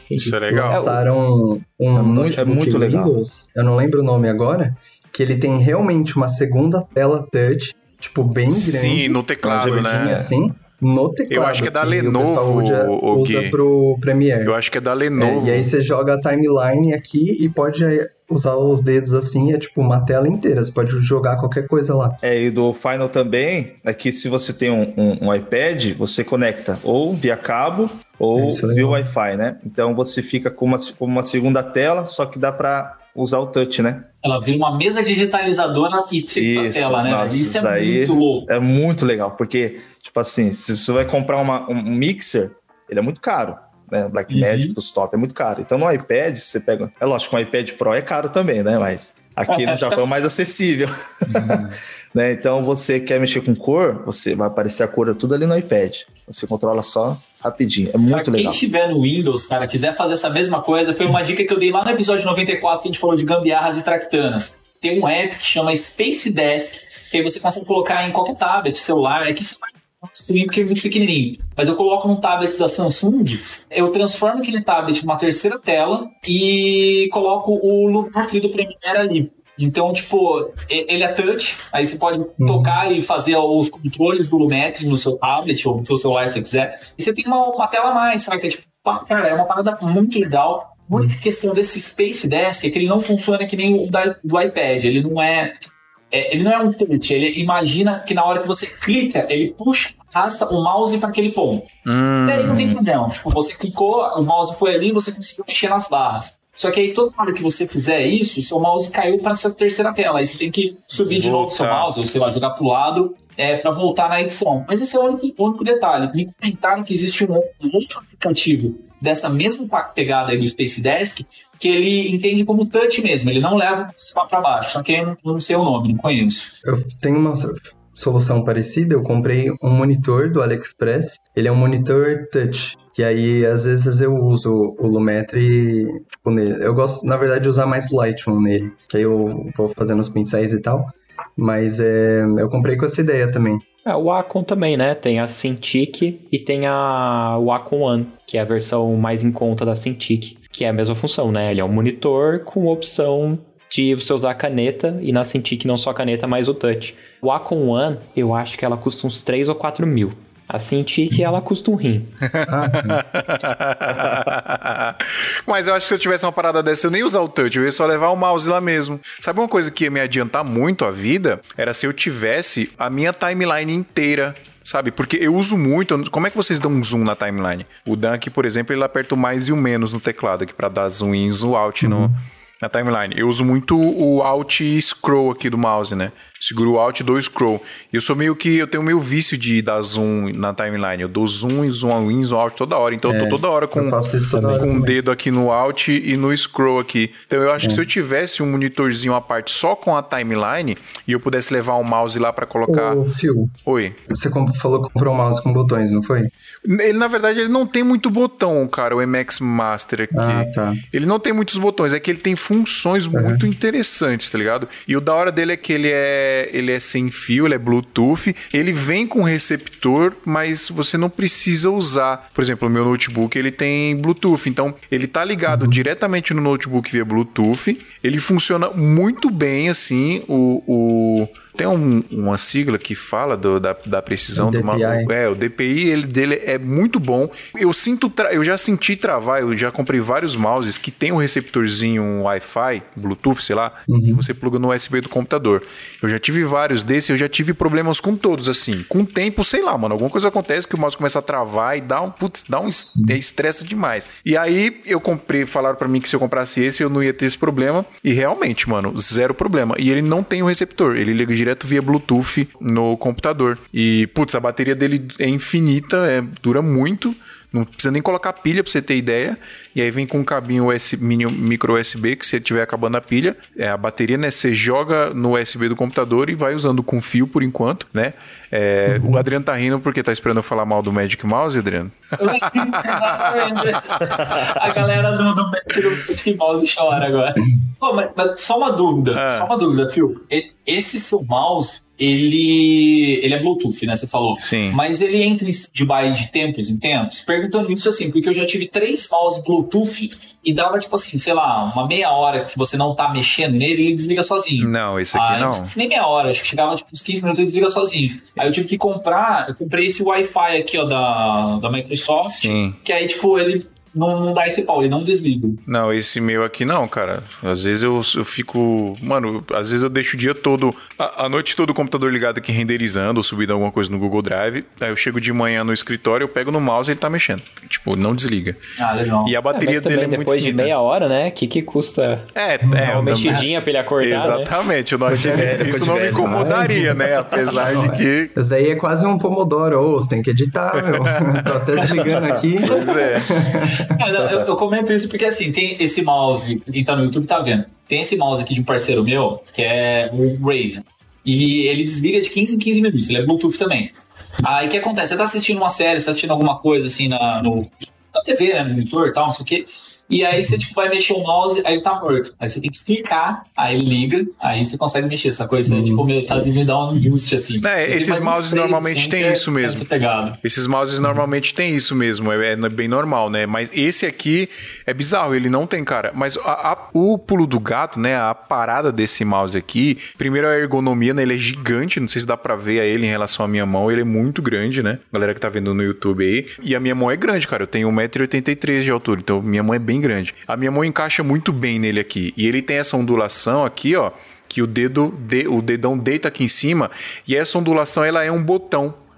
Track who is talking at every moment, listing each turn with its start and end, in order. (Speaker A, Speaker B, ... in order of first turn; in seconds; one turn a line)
Speaker A: 0.1-0.8
Speaker B: 0.3-1.0
Speaker C: 0.5-14.6
Speaker D: 1.9-3.1
Speaker A: 8.5-10.3
Speaker D: 9.4-10.0
Speaker A: 11.3-13.6
Speaker A: 14.4-15.7
Speaker C: 15.2-22.2
Speaker D: 22.2-34.1
Speaker C: 28.3-29.1
Speaker E: 34.2-38.5
Speaker D: 36.3-58.6
Speaker E: 44.3-44.8
Speaker E: 49.5-50.0
Speaker A: 51.4-51.8
Speaker E: 58.1-95.6
Speaker C: 82.4-82.8
Speaker E: 96.1-101.7
Speaker A: 101.9-102.7
Speaker E: 102.2-126.5
Speaker D: 102.4-102.8
Speaker A: 111.0-111.9
Speaker C: 126.6-143.6
Speaker B: 143.9-162.2
Speaker A: 162.3-203.0
Speaker C: 162.5-163.0
Speaker C: 181.8-182.2
Speaker C: 193.1-195.0
Speaker C: 202.7-203.5
Speaker A: 203.7-204.0
Speaker C: 204.1-206.3
Speaker A: 206.7-284.6
Speaker C: 210.1-210.8
Speaker C: 213.1-213.5
Speaker C: 225.5-225.8
Speaker C: 234.3-235.1
Speaker C: 243.9-244.2
Speaker C: 252.9-253.2
Speaker C: 278.9-279.2
Speaker E: 282.2-315.6
Speaker A: 289.1-289.5
Speaker A: 294.4-294.8
Speaker A: 304.6-305.7
Speaker A: 312.3-312.8
Speaker A: 315.7-328.6
Speaker E: 328.8-329.4
Speaker A: 329.2-330.7
Speaker B: 329.6-334.5
Speaker A: 332.4-338.3
Speaker C: 332.6-333.4
Speaker C: 335.1-343.9
Speaker D: 335.2-336.6
Speaker A: 340.9-341.5
Speaker A: 342.6-343.4
Speaker E: 342.7-370.4
Speaker D: 344.2-344.5
Speaker C: 365.7-366.4
Speaker A: 367.6-369.9
Speaker A: 370.4-399.0